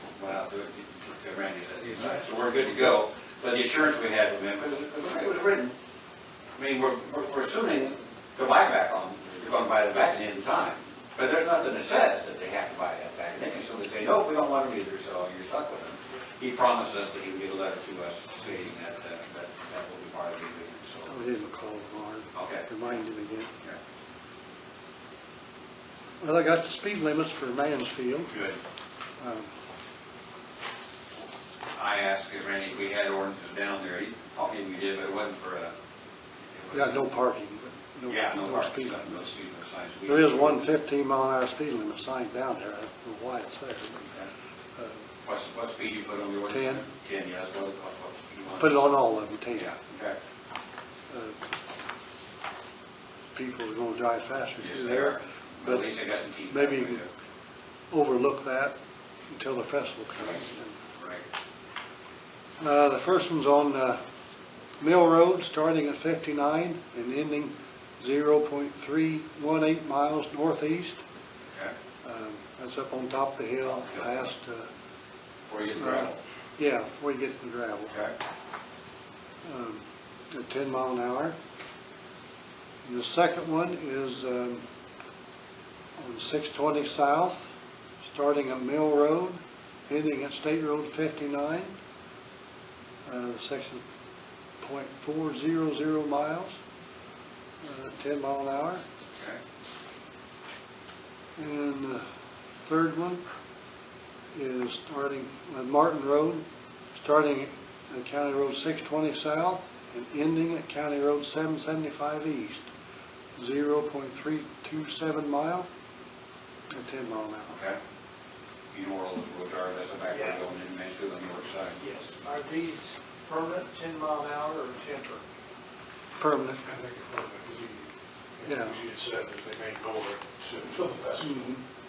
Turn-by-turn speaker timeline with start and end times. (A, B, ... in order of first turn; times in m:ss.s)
0:00.1-0:05.7 A
0:06.6-0:21.1 A
0:21.1-0:23.5 B
0:22.3-0:23.0 A
0:26.2-0:28.3 B
0:28.3-0:28.6 A
0:29.2-0:29.5 B
0:31.8-0:35.7 A
0:36.5-0:37.0 A
0:36.7-0:39.3 B
0:38.1-0:40.7 A
0:40.1-0:44.0 B
0:44.0-0:44.3 A
0:44.8-0:45.0 B
0:45.2-0:48.9 A
0:46.5-0:46.8 B
0:48.6-0:49.7 B
0:49.5-0:50.2 A
0:51.1-0:51.4 B
0:53.3-0:55.9 B
0:54.6-0:57.1 A
0:56.5-0:57.0 B
0:57.9-0:58.7 B
0:59.3-1:00.8 B
1:00.9-1:01.2 A
1:02.6-1:04.0 B
1:04.8-1:11.0 B
1:12.0-1:14.7 B
1:15.5-1:16.2 A
1:15.8-1:18.0 B
1:19.4-1:21.4 B
1:22.8-1:24.6 B
1:26.0-1:27.5 B
1:28.0-1:31.7 B
1:33.0-1:33.8 B
1:34.6-1:36.6 B
1:37.6-1:38.8 B
1:41.4-1:42.0 B
1:42.6-1:43.2 B
1:44.3-1:46.4 B
1:47.0-1:52.6 B
1:53.4-1:55.7 B
1:56.7-1:57.5 B
1:57.5-1:57.8 A
1:58.7-2:01.8 A
2:00.1-2:00.4 C
2:01.8-2:05.2 C
2:06.2-2:06.6 B
2:06.6-2:07.9 C
2:08.4-2:11.6 C
2:08.4-2:08.8 B
2:11.3-2:11.6 B